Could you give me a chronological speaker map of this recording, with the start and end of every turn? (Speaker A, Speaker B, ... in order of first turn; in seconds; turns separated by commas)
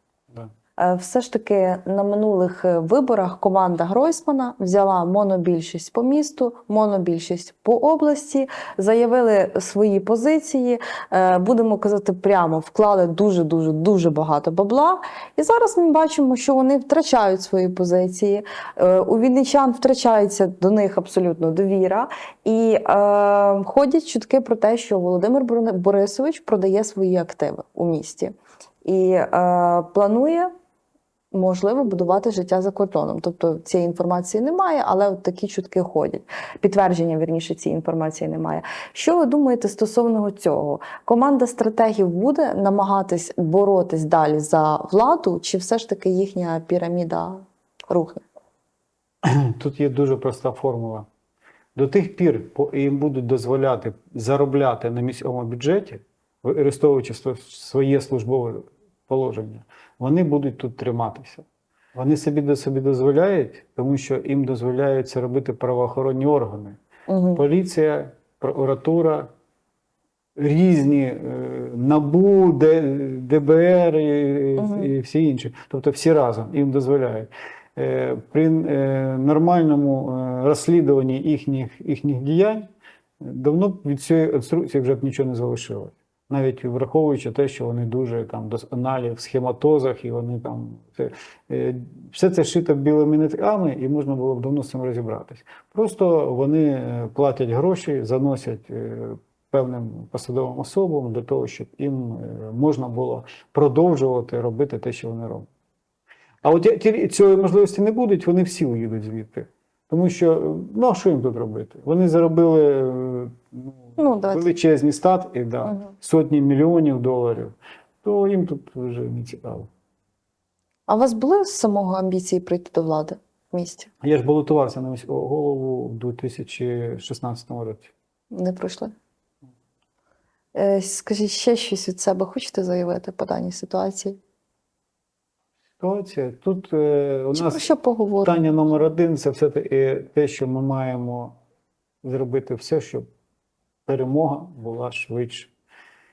Speaker A: 0.8-30.5, Speaker A: 31.3-48.2, Speaker B: 49.2-51.1, Speaker B: 51.8-66.8, Speaker A: 67.1-67.4, Speaker B: 67.3-69.3, Speaker B: 70.4-82.7, Speaker A: 74.6-74.9, Speaker B: 83.2-105.5, Speaker B: 106.4-119.7, Speaker A: 114.0-114.5, Speaker A: 120.9-123.9, Speaker B: 124.0-127.9, Speaker A: 128.3-128.9, Speaker A: 130.5-134.2, Speaker B: 135.8-137.6, Speaker A: 137.3-138.4, Speaker B: 138.2-141.3, Speaker B: 142.0-143.1, Speaker B: 143.9-145.5